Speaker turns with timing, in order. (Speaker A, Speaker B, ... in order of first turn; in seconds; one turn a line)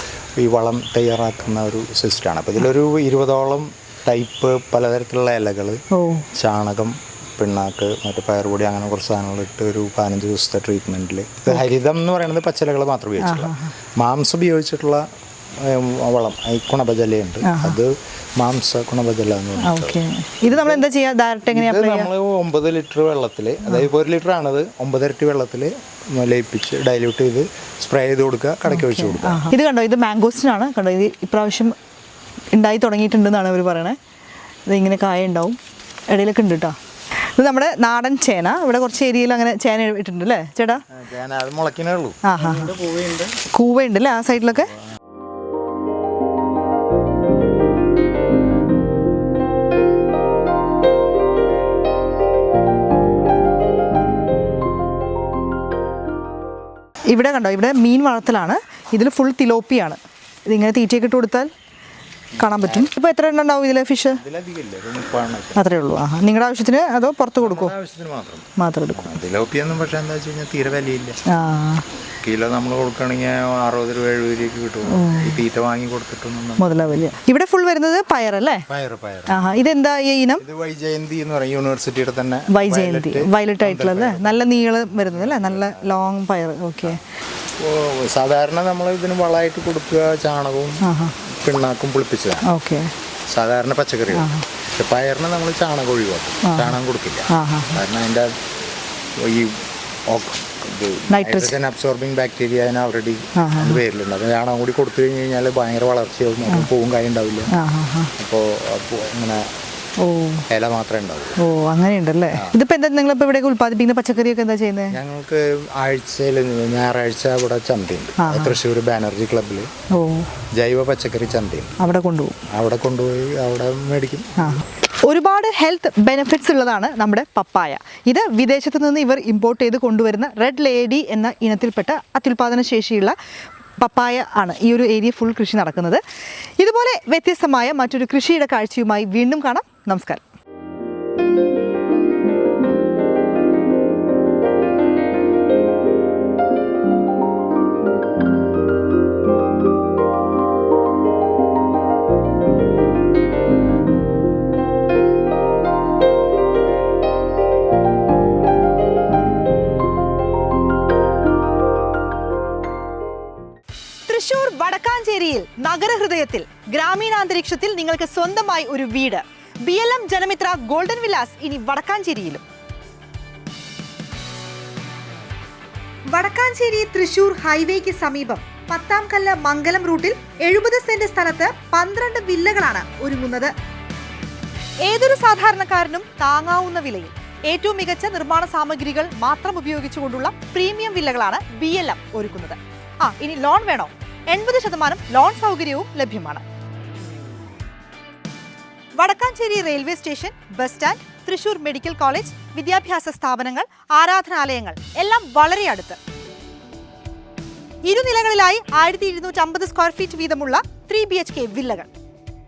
Speaker A: 0.4-5.8
Speaker B: 5.9-6.3
Speaker A: 6.3-15.0
Speaker B: 13.2-13.7
Speaker A: 15.6-20.8
Speaker B: 17.4-17.8
Speaker B: 19.6-22.1
Speaker A: 21.5-29.5
Speaker B: 28.7-31.7
Speaker B: 32.5-34.0
Speaker B: 34.7-35.6
Speaker B: 36.1-36.8
Speaker B: 37.4-40.8
Speaker A: 40.9-43.4
Speaker B: 42.2-42.8
Speaker B: 43.4-44.7
Speaker B: 57.1-61.5
Speaker A: 62.4-62.9
Speaker B: 62.4-64.2
Speaker A: 64.1-65.7
Speaker B: 65.5-67.7
Speaker A: 67.4-71.2
Speaker B: 68.6-69.2
Speaker B: 71.3-71.8
Speaker A: 72.2-76.8
Speaker B: 74.9-75.4
Speaker B: 76.6-78.7
Speaker A: 78.7-79.4
Speaker B: 79.3-80.4
Speaker A: 80.4-86.1
Speaker B: 82.5-87.0
Speaker A: 87.6-90.8
Speaker B: 90.8-91.1
Speaker A: 91.4-92.5
Speaker B: 92.4-92.9
Speaker A: 93.3-98.3
Speaker B: 94.1-94.4
Speaker B: 96.4-96.8
Speaker B: 97.3-97.8
Speaker A: 99.2-107.5
Speaker B: 101.1-101.6
Speaker B: 103.3-103.8
Speaker B: 107.5-108.1
Speaker A: 108.2-109.5
Speaker B: 110.0-110.4
Speaker A: 110.5-111.4
Speaker B: 111.4-115.0
Speaker A: 112.3-112.5
Speaker A: 114.9-119.7
Speaker B: 118.2-118.6
Speaker B: 119.9-120.3
Speaker A: 120.5-121.7
Speaker B: 121.8-122.4
Speaker A: 122.5-124.6
Speaker B: 124.4-133.2
Speaker B: 133.8-136.0
Speaker B: 136.6-140.2
Speaker B: 164.1-172.4
Speaker B: 176.1-183.5
Speaker B: 184.8-196.4
Speaker B: 199.0-206.0
Speaker B: 207.8-211.9